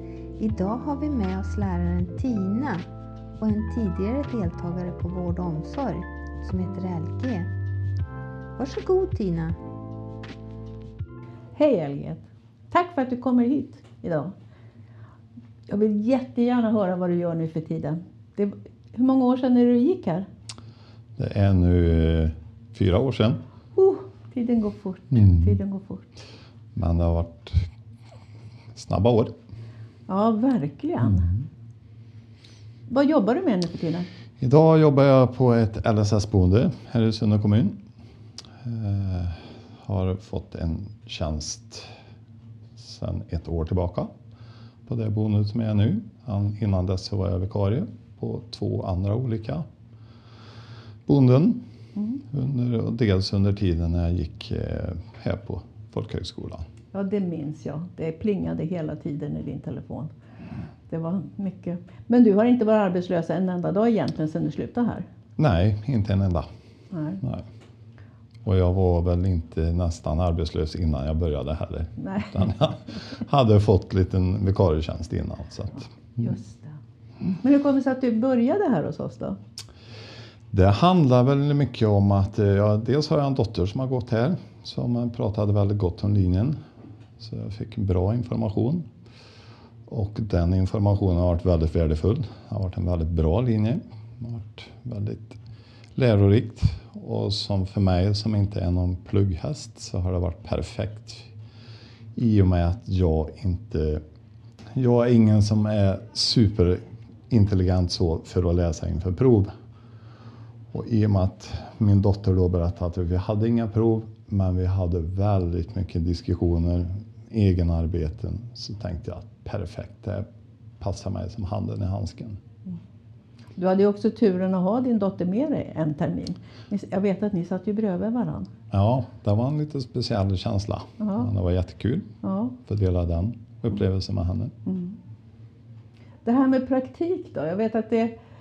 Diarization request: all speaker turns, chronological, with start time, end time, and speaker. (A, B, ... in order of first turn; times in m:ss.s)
0:00.4-0:02.8 A
0:03.4-0:07.5 A
0:08.6-0:09.6 A
0:11.5-0:14.3 B
0:15.7-0:20.3 B
0:21.2-0:23.4 C
0:23.7-0:26.1 B
0:25.1-0:25.5 C
0:26.8-0:27.7 C
0:28.7-0:29.3 C
0:30.1-0:31.4 B
0:32.9-0:34.1 B
0:34.4-0:37.8 C
0:38.6-0:41.9 C
0:42.8-0:44.1 C
0:44.8-0:49.6 C
0:51.1-0:51.6 C
0:52.3-0:56.6 C
0:56.9-1:00.1 B
1:00.9-1:05.0 B
1:05.4-1:06.5 C
1:06.9-1:07.2 B
1:08.4-1:15.9 C
1:12.0-1:12.3 B
1:16.2-1:16.8 B
1:17.4-1:19.4 B
1:20.5-1:26.6 C
1:27.2-1:28.8 C
1:29.9-1:35.4 C
1:36.0-1:41.3 C
1:42.2-1:44.0 C
1:44.8-1:49.5 C
1:50.7-2:00.3 C
2:00.8-2:02.4 C
2:03.6-2:08.5 B
2:08.7-2:12.1 C
2:11.0-2:11.3 B
2:12.2-2:12.6 B
2:12.6-2:14.5 C
2:14.6-2:15.0 B
2:16.2-2:18.2 B